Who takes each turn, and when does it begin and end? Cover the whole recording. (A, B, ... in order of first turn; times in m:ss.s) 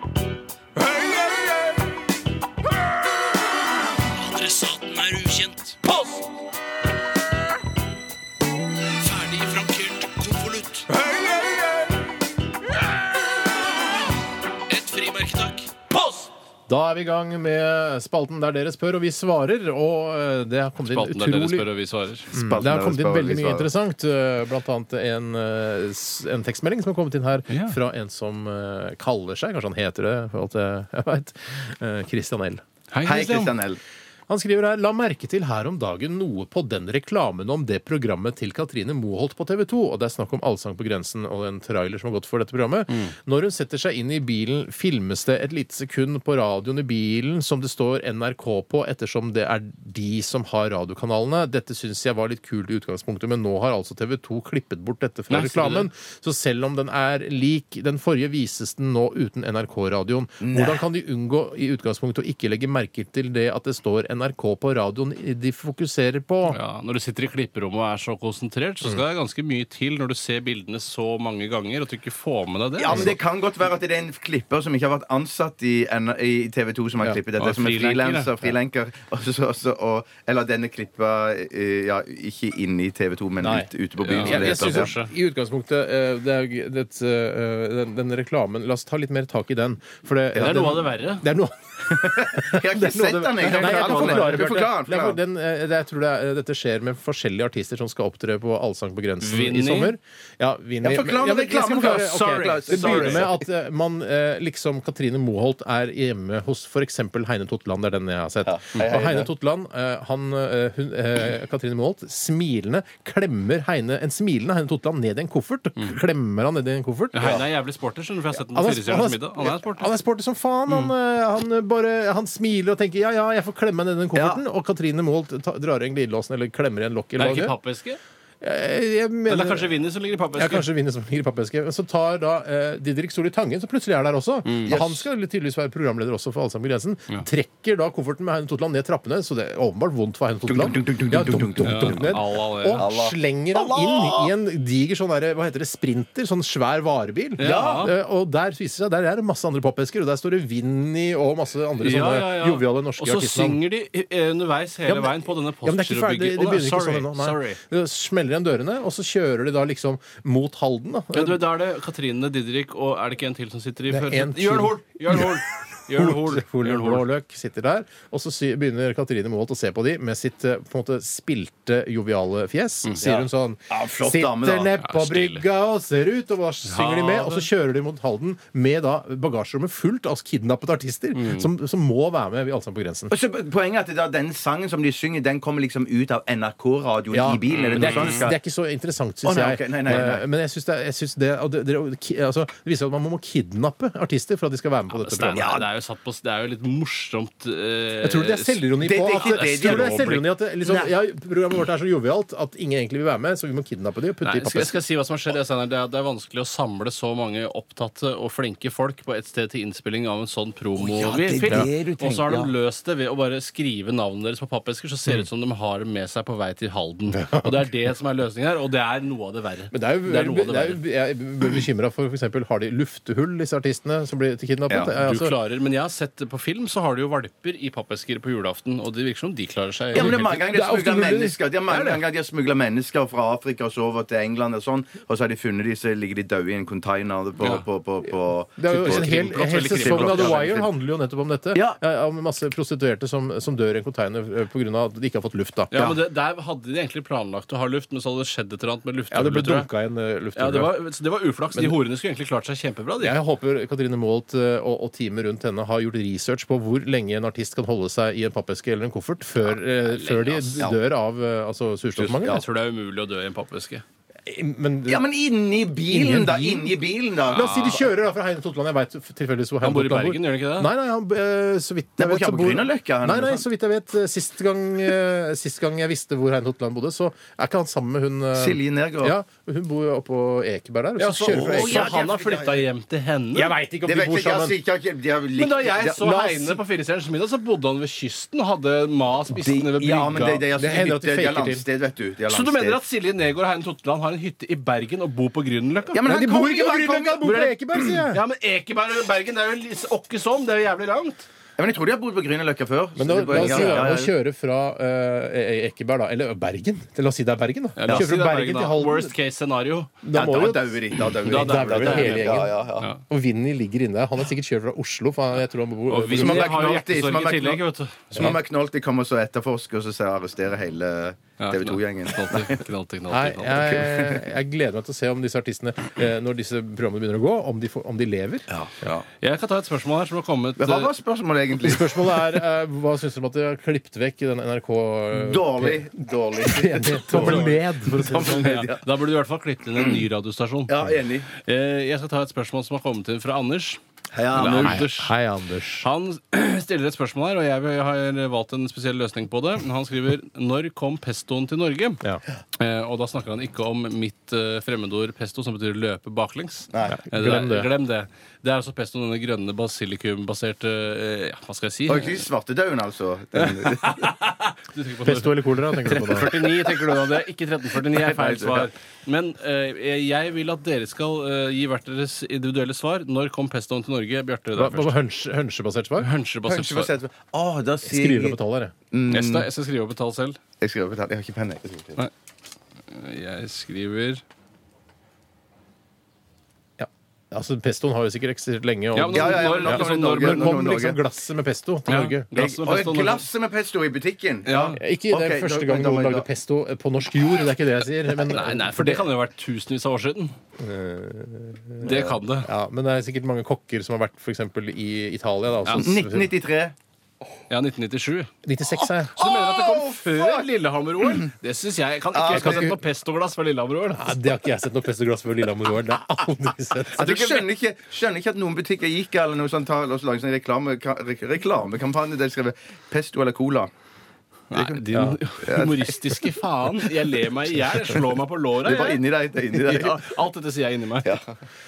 0:04.0-0:06.2 A
0:08.9-0:10.9 A
0:11.0-0:12.0 B
0:14.7-0:16.3 A
0:16.7-0:21.7 B
0:20.8-0:22.3 A
0:22.3-0:23.7 C
0:22.3-0:32.6 B
0:27.5-0:27.8 A
0:32.9-0:33.5 A
0:33.0-0:33.8 C
0:34.3-1:06.6 B
0:55.3-0:55.9 A
1:00.4-1:00.8 C
1:06.5-1:13.1 A
1:12.8-1:24.9 C
1:17.4-1:18.3 A
1:23.4-1:57.4 B
1:24.0-1:25.1 A
1:30.4-1:30.7 C
1:30.4-1:31.2 A
1:31.9-1:35.2 C
1:33.4-1:34.4 A
1:39.2-1:40.0 A
1:40.8-1:43.4 C
1:41.8-1:43.3 A
1:48.4-1:49.3 C
1:57.1-1:59.9 A
1:58.5-2:07.6 B
2:04.2-2:04.4 C
2:07.2-2:08.0 A
2:08.4-2:09.7 B
2:09.3-2:10.7 A
2:10.4-2:33.6 B
2:14.5-2:14.7 A
2:14.7-2:15.0 C
2:20.5-2:22.2 C
2:21.6-2:22.8 A
2:22.8-2:24.3 C
2:27.4-2:27.9 A
2:27.4-2:27.9 C
2:31.8-2:37.6 A
2:34.9-2:41.4 B
2:41.1-2:47.1 A
2:43.9-2:45.4 B
2:45.9-3:03.1 B
2:52.9-2:54.8 C
2:54.8-2:55.4 A
2:56.7-2:57.5 A
3:01.2-3:01.5 A
3:03.1-3:08.4 C
3:07.1-3:15.6 B
3:07.5-3:08.3 A
3:09.2-3:10.2 C
3:14.9-3:20.3 A
3:15.4-3:15.6 C
3:18.0-3:24.8 B
3:18.8-3:20.9 C
3:24.2-3:40.8 A
3:30.8-3:32.5 C
3:31.4-3:31.7 B
3:37.2-3:37.6 B
3:39.7-3:45.3 B
3:44.8-3:50.4 A
3:49.9-3:51.4 B
3:49.9-4:00.7 C
3:51.7-3:52.0 A
3:58.6-4:05.9 B
3:58.7-4:00.5 A
4:01.5-4:01.8 C
4:05.7-4:09.7 A
4:09.1-4:10.8 B
4:10.4-4:13.2 A
4:13.0-4:22.4 B
4:19.9-4:20.7 A
4:22.0-4:23.8 A
4:24.3-4:25.0 B
4:24.9-4:27.9 C
4:25.9-4:26.8 B
4:27.3-4:41.9 B
4:27.4-4:27.7 A
4:29.6-4:30.7 A
4:32.0-4:33.4 C
4:38.4-4:39.2 C
4:41.0-4:43.5 A
4:41.3-4:42.6 C
4:43.4-4:44.6 B
4:43.8-4:46.1 C
4:45.4-4:50.4 A
4:46.0-4:46.6 B
4:49.3-4:52.8 C
4:50.6-4:51.6 B
4:52.3-4:56.1 A
4:55.9-4:57.4 C
4:56.0-4:58.2 B
4:57.2-5:01.3 A
5:01.6-5:04.1 C
5:03.0-5:09.1 B
5:03.4-5:03.8 A
5:07.8-5:10.0 A
5:10.0-5:16.6 B
5:10.2-5:12.9 C
5:11.2-5:13.0 A
5:15.9-5:18.4 A
5:16.2-5:22.6 C
5:21.4-5:23.8 A
5:23.1-5:28.5 B
5:23.6-5:24.3 C
5:28.5-5:29.0 C
5:29.1-5:30.9 A
5:30.6-5:32.2 C
5:31.6-5:35.9 B
5:35.1-5:38.8 C
5:36.4-5:38.7 B
5:37.1-5:43.8 A
5:39.8-5:40.0 C
5:40.7-5:41.3 C
5:44.1-5:44.9 C
5:44.3-5:45.1 A
5:44.5-5:45.9 B
5:45.8-5:52.0 A
5:52.6-6:02.3 A
5:56.7-5:57.0 C
5:56.9-5:57.7 B
6:01.9-6:04.1 C
6:03.4-6:15.0 A
6:05.0-6:06.3 B
6:07.9-6:08.7 C
6:14.6-6:16.1 B
6:16.0-6:16.9 A
6:16.5-6:18.4 C
6:17.8-6:18.7 B
6:18.9-6:19.5 C
6:19.1-6:20.4 A
6:20.6-6:22.0 C
6:22.9-6:24.2 A
6:26.8-6:32.3 B
6:29.0-6:30.6 A
6:29.1-6:31.0 C
6:31.9-6:33.2 A
6:32.4-6:36.3 C
6:34.5-6:34.8 A
6:34.7-6:39.1 B
6:38.2-6:40.4 A
6:40.6-6:46.3 B
6:41.8-6:42.5 A
6:45.8-6:46.8 C
6:47.5-6:48.3 A
6:48.4-6:49.2 B
6:49.0-6:54.2 A
6:49.2-6:50.5 C
6:52.1-6:52.7 C
6:52.3-6:52.8 B
6:54.0-6:57.4 B
6:56.9-7:03.7 C
7:04.5-7:09.0 A
7:04.5-7:04.8 C
7:04.9-7:05.2 B
7:05.4-7:06.3 C
7:08.6-7:10.1 C
7:09.5-7:11.2 A